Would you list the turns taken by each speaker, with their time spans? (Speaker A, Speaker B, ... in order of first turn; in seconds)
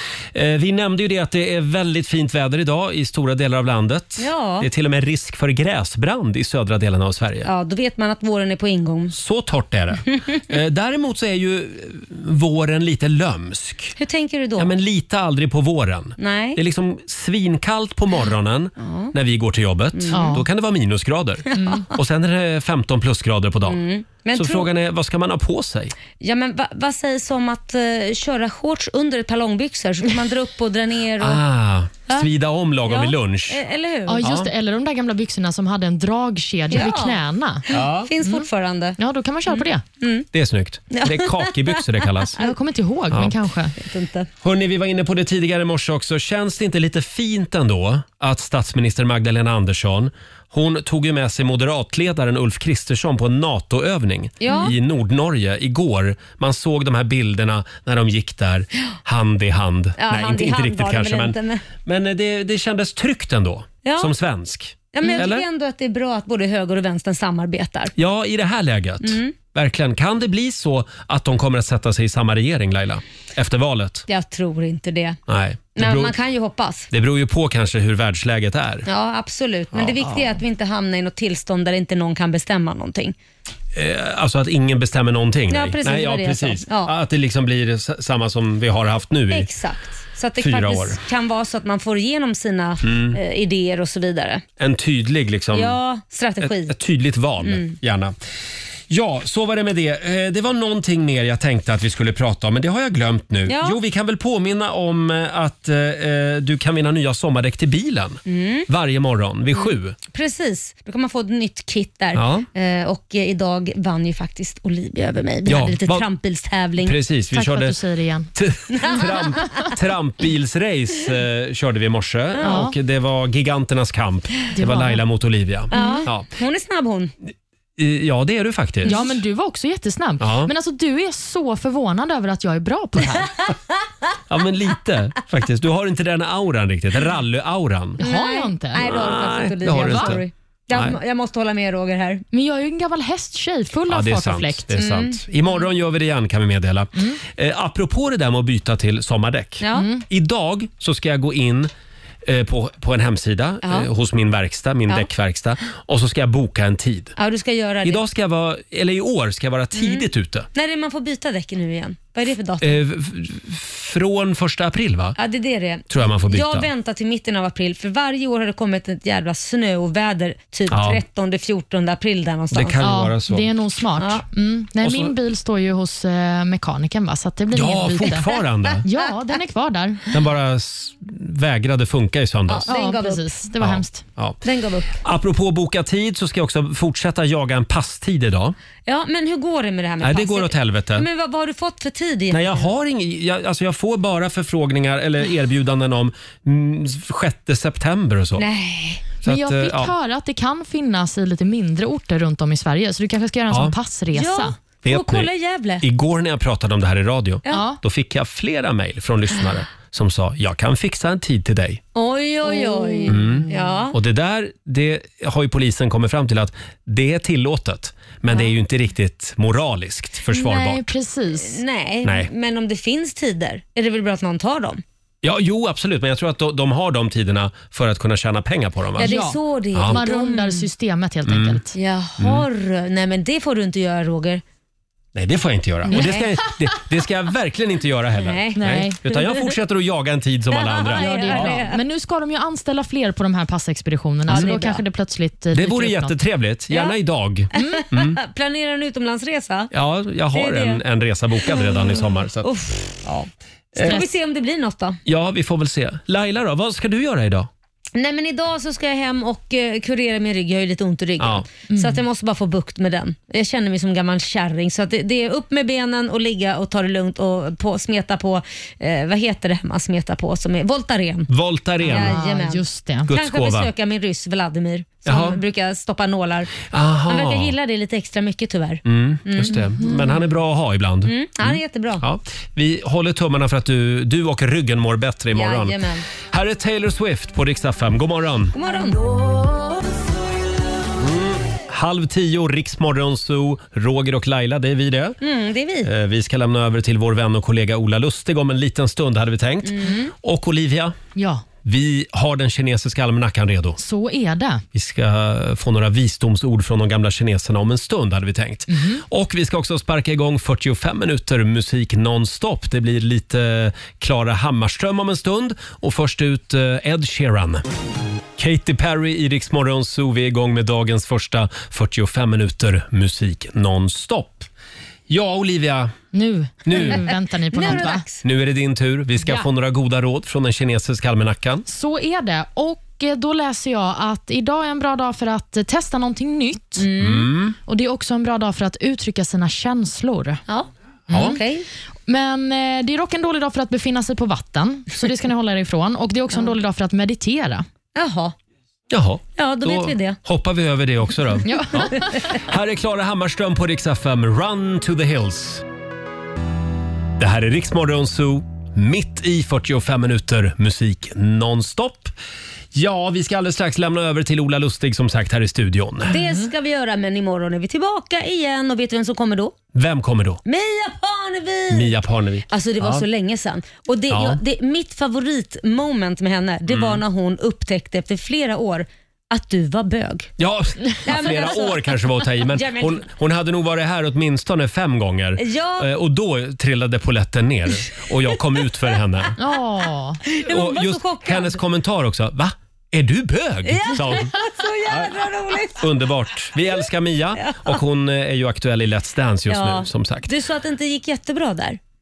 Speaker A: 0.3-7.5, 9.1-13.9, 14.6-23.8, 24.3-25.9, 31.2-33.6, 34.2-34.5, 37.7-38.1, 40.3-42.4, 44.4-65.5, 68.0-74.0, 75.3-76.2, 76.9-78.9, 79.7-80.4, 83.7-89.5, 90.4-91.0, 92.8-93.2, 94.6-95.8, 96.4-98.1, 98.9-110.0, 112.1-112.5, 115.5-116.1, 116.8-117.8, 118.3-126.3, 127.8-129.0, 130.2-130.5, 134.3-138.0, 138.8-140.9, 143.9-151.7, 152.2-157.1, 157.8-160.5, 162.6-165.2, 165.9-166.7, 170.7-171.0, 172.5-173.5, 174.8-175.1, 177.5-178.8, 180.1-182.7, 183.6-184.4, 185.0-188.6, 190.0-191.1, 192.3-198.4, 199.2-199.9, 204.8-205.3, 205.8-211.8, 213.1-220.9, 222.0-222.3, 225.2-229.2, 229.7-230.0, 231.2-231.6, 232.2-232.4, 235.1-241.6, 245.5-248.2, 249.7-252.5, 253.0-254.0, 255.1-257.5, 261.2-261.4, 271.3-272.2, 273.1-273.7, 275.1-275.4, 276.7-277.5, 278.9-288.5, 291.0-295.2, 295.8-300.9, 301.6-303.8, 304.7-317.6, 318.4-324.5, 325.1-325.9, 326.6-327.0, 327.7-331.6, 337.0-337.6, 341.1-341.4, 348.9-355.6, 357.2-362.1, 362.7-366.1, 369.7-370.4, 371.7-373.1, 374.1-374.4, 376.7-377.0, 380.4-389.4, 390.4-394.3, 394.9-400.3
Speaker B: 4.2-4.7, 7.4-9.1, 14.0-14.7, 16.2-16.6, 18.8-19.1, 19.9-20.4, 21.5-21.9, 23.6-24.7, 26.2-31.4, 32.9-34.2, 36.7-39.0, 39.5-40.3, 40.9-42.5, 43.8-44.3, 54.4-54.7, 60.0-61.6, 63.8-64.1, 64.9-67.9, 69.0-69.3, 74.1-75.2, 75.8-76.9, 78.9-83.1, 85.5-86.9, 89.3-94.4, 95.5-96.7, 97.4-97.8, 103.5-103.8, 108.3-108.7, 109.6-117.0, 118.8-119.0, 122.4-122.6, 125.7-127.1, 138.0-142.2, 144.7-145.3, 149.6-149.9, 153.6-153.9, 157.2-158.0, 159.7-162.8, 165.2-172.8, 174.0-174.2, 182.5-183.4, 184.4-185.0, 188.8-192.7, 198.4-199.0, 204.1-205.8, 211.9-214.0, 221.3-224.8, 229.0-230.7, 231.7-234.4, 235.9-236.2, 238.2-239.6, 240.5-241.8, 244.3-244.8, 246.7-246.9, 247.5-249.7, 250.3-250.8, 251.4-253.2, 253.7-255.0, 257.9-271.3, 271.8-279.7, 281.0-282.0, 285.3-286.1, 288.5-289.0, 295.2-295.9, 299.6-300.1, 326.8-328.2, 336.8-337.3, 340.5-341.7, 347.9-348.3, 349.4-350.2, 351.9-352.2, 366.1-369.6, 370.4-371.9, 372.5-380.3, 381.0-383.0, 385.4-385.9, 390.2-391.6, 393.6-395.9, 397.4-397.8, 399.5-401.8
Speaker C: 20.1-20.4, 21.6-21.8, 34.1-37.6, 39.0-39.8, 42.4-43.8, 117.3-118.3, 122.4-122.7, 124.5-125.0, 125.7-126.0, 128.8-133.3, 138.0-138.9, 139.7-140.2, 142.3-144.8, 149.7-150.0, 172.8-178.3, 178.8-180.0, 182.7-184.0, 199.2-204.5, 207.5-207.8, 212.4-213.7, 220.3-221.6, 229.0-231.7, 235.9-236.3, 238.6-239.0, 240.9-246.1, 247.5-247.8, 261.7-262.0, 271.8-273.1, 279.5-280.1, 301.1-301.4, 303.8-304.6, 308.7-309.0, 326.1-328.0, 329.2-329.5, 331.7-336.9, 337.7-340.4, 341.1-341.4, 342.1-347.6, 351.4-352.2, 366.1-366.4, 389.4-390.2